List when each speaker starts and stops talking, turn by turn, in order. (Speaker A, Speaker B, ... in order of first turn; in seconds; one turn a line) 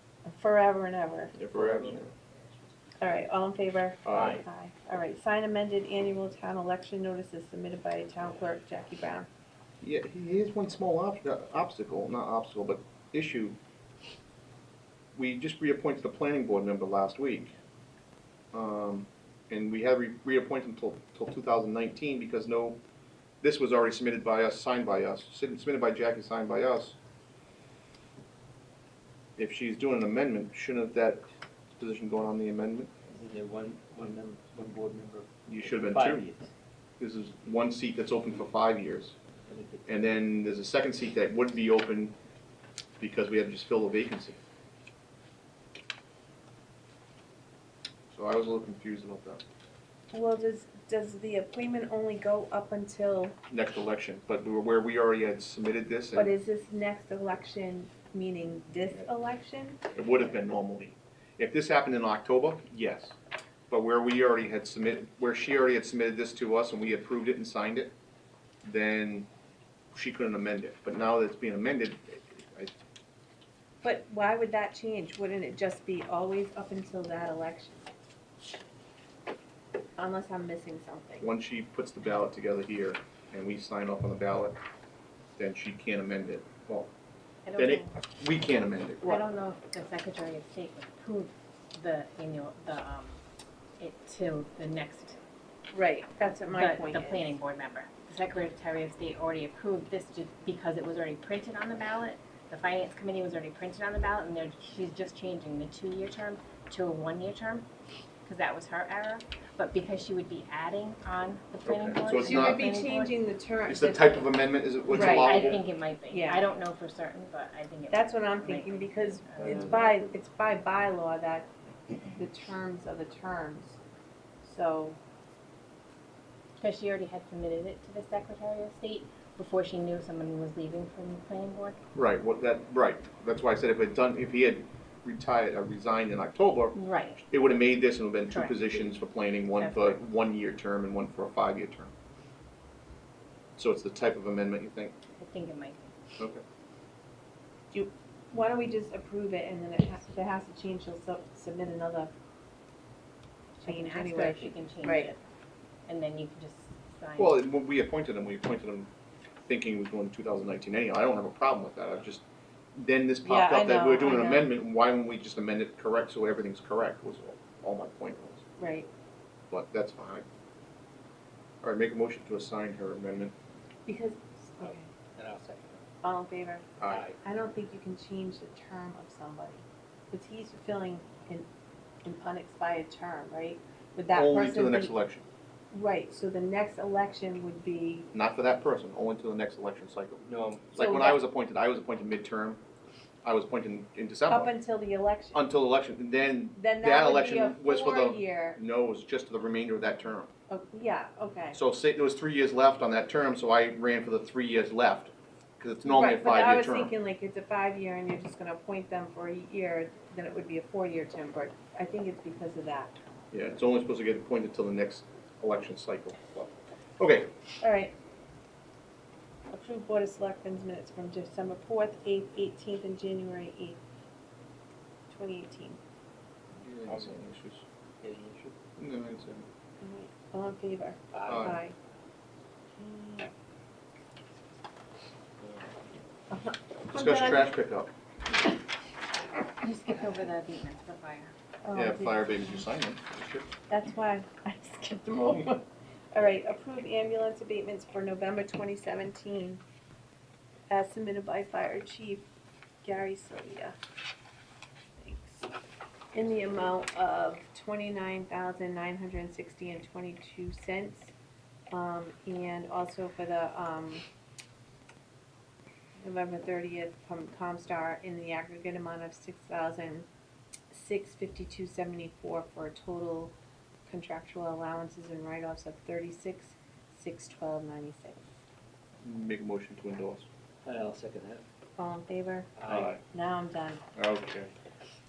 Speaker A: 0.2-1.4
Speaker B: 1.3-2.1
Speaker C: 1.5-2.1
Speaker A: 3.0-9.3
Speaker B: 4.0-4.4
Speaker C: 4.1-4.4
Speaker B: 9.8-13.6
Speaker B: 15.2-17.5
Speaker B: 18.5-22.8
Speaker B: 23.4-26.9
Speaker B: 29.4-31.2
Speaker B: 31.8-32.9
Speaker C: 33.1-36.5
Speaker B: 35.5-36.2
Speaker B: 37.0-39.1
Speaker C: 39.5-39.9
Speaker B: 39.9-42.1
Speaker B: 43.0-44.4
Speaker B: 48.1-49.4
Speaker A: 50.1-53.4
Speaker B: 53.5-56.3
Speaker A: 56.1-59.8
Speaker B: 59.9-63.1
Speaker B: 63.7-67.9
Speaker B: 68.6-69.3
Speaker B: 69.9-72.7
Speaker A: 73.8-77.8
Speaker A: 80.0-81.3
Speaker B: 81.2-84.6
Speaker B: 85.4-86.9
Speaker D: 87.4-87.9
Speaker B: 87.5-89.2
Speaker D: 89.0-93.2
Speaker D: 93.8-95.2
Speaker A: 95.7-97.3
Speaker D: 96.5-107.7
Speaker D: 108.2-113.1
Speaker B: 111.7-112.7
Speaker A: 112.1-114.3
Speaker B: 113.7-115.6
Speaker A: 114.9-115.6
Speaker D: 114.9-119.8
Speaker A: 116.1-116.4
Speaker A: 117.9-121.5
Speaker C: 119.4-120.1
Speaker A: 122.1-123.8
Speaker A: 124.4-125.0
Speaker D: 126.6-131.8
Speaker B: 131.9-141.9
Speaker D: 136.7-137.3
Speaker D: 138.2-140.0
Speaker B: 143.6-144.9
Speaker D: 145.2-145.9
Speaker A: 147.7-152.1
Speaker D: 153.6-155.1
Speaker A: 153.7-155.2
Speaker D: 155.8-157.4
Speaker B: 157.2-158.9
Speaker B: 159.4-162.2
Speaker B: 162.8-168.4
Speaker A: 163.2-164.5
Speaker A: 168.6-168.9
Speaker B: 169.5-170.2
Speaker B: 171.6-173.3
Speaker A: 173.8-174.8
Speaker C: 174.6-175.8
Speaker A: 176.0-181.5
Speaker B: 176.8-177.1
Speaker C: 176.8-177.2
Speaker A: 182.0-184.9
Speaker B: 184.1-185.2
Speaker A: 185.7-188.1
Speaker B: 188.1-192.6
Speaker C: 190.2-190.8
Speaker A: 190.8-191.2
Speaker B: 193.2-194.5
Speaker A: 194.3-195.4
Speaker B: 195.3-200.3
Speaker A: 196.5-198.6
Speaker A: 200.5-201.6
Speaker B: 201.5-206.9
Speaker A: 205.8-212.9
Speaker B: 213.3-217.3
Speaker A: 217.6-217.9
Speaker A: 219.5-223.8
Speaker A: 225.1-225.8
Speaker B: 226.6-227.6
Speaker C: 226.7-227.2
Speaker C: 228.0-228.5
Speaker B: 228.8-229.4
Speaker A: 229.8-231.7
Speaker C: 231.1-231.5
Speaker B: 231.2-231.6
Speaker A: 232.8-233.3
Speaker A: 236.3-237.5
Speaker B: 236.9-237.9
Speaker D: 239.6-241.3
Speaker A: 241.6-242.6
Speaker B: 241.7-243.5
Speaker A: 243.7-249.6
Speaker A: 250.7-252.2
Speaker A: 252.8-253.7
Speaker A: 255.0-255.5
Speaker A: 256.1-261.1
Speaker A: 261.7-264.0
Speaker A: 266.0-270.1
Speaker A: 270.7-273.3
Speaker A: 273.9-278.2
Speaker B: 279.0-280.3
Speaker C: 280.6-281.4
Speaker A: 281.8-282.6
Speaker C: 282.6-283.0
Speaker B: 282.7-283.0
Speaker A: 283.1-283.8
Speaker B: 283.9-284.5